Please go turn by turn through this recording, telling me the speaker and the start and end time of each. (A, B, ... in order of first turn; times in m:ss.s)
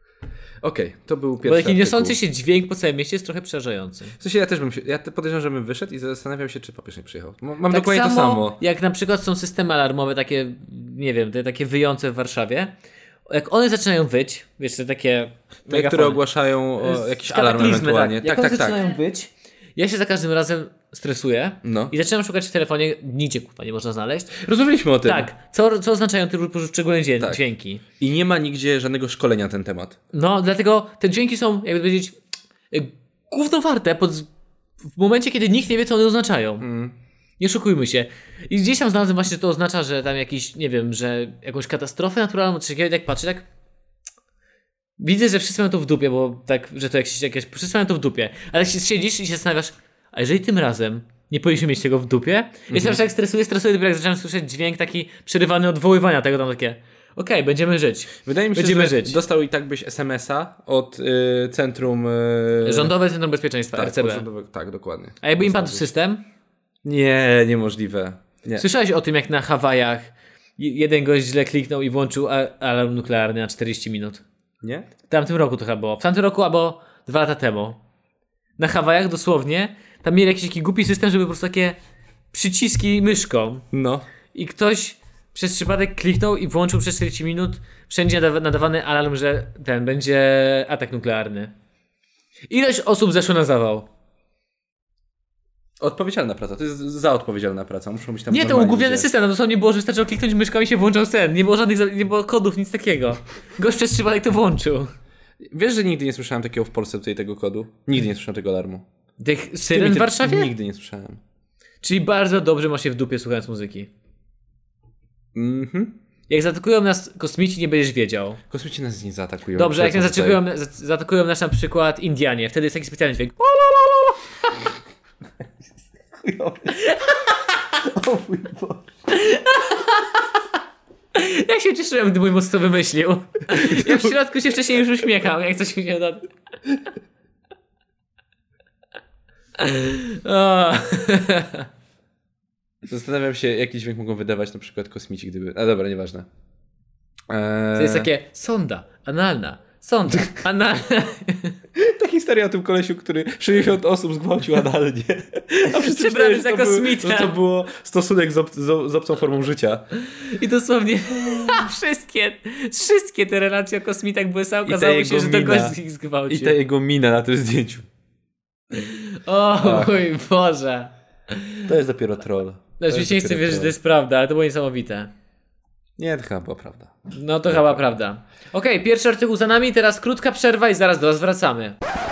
0:00.6-0:02.2 A
0:01.4-0:04.2 B
0:04.2-0:08.6 A
0:07.7-0:12.7 B
0:13.3-0:16.2 B
0:15.7-0:18.8 A
0:16.8-0:24.4 B
0:21.6-0:21.9 A
0:24.3-0:25.3 A
0:25.0-0:27.8 B
0:28.0-0:30.0 A
0:30.1-0:32.2 B
0:32.7-0:34.3 B
0:34.9-0:36.7 B
0:36.6-0:37.0 A
0:37.4-0:43.4 B
0:45.0-0:59.2 B
0:52.7-0:53.0 A
0:58.2-1:02.9 A
1:02.6-1:04.2 B
1:03.7-1:05.9 A
1:05.2-1:06.2 B
1:06.8-1:08.6 A
1:08.6-1:14.2 B
1:14.6-1:14.9 A
1:15.1-1:17.8 B
1:18.6-1:21.8 B
1:22.3-1:23.6 B
1:23.7-1:24.0 A
1:24.3-1:31.5 B
1:32.5-1:33.9 B
1:35.8-1:39.1 A
1:38.3-1:44.9 B
1:45.5-1:48.8 A
1:49.2-1:50.5 B
1:49.7-1:51.2 A
1:51.8-1:53.9 B
1:55.3-1:55.9 A
1:56.3-1:58.4 B
1:58.5-2:00.4 A
1:59.6-2:03.7 B
2:03.8-2:04.1 A
2:06.1-2:06.9 A
2:06.7-2:07.7 B
2:07.8-2:08.9 A
2:09.1-2:10.3 B
2:11.1-2:16.3 B
2:13.5-2:14.1 A
2:19.6-2:21.7 B
2:22.8-2:26.3 A
2:27.3-2:28.1 A
2:27.8-2:31.6 B
2:31.7-2:39.8 A
2:35.6-2:37.3 B
2:40.2-2:46.6 B
2:44.6-2:45.8 A
2:46.3-2:47.9 A
2:48.7-2:51.7 B
2:49.6-2:50.0 A
2:51.6-2:53.7 A
2:52.8-2:55.1 B
2:56.0-2:57.8 A
2:57.1-3:01.8 B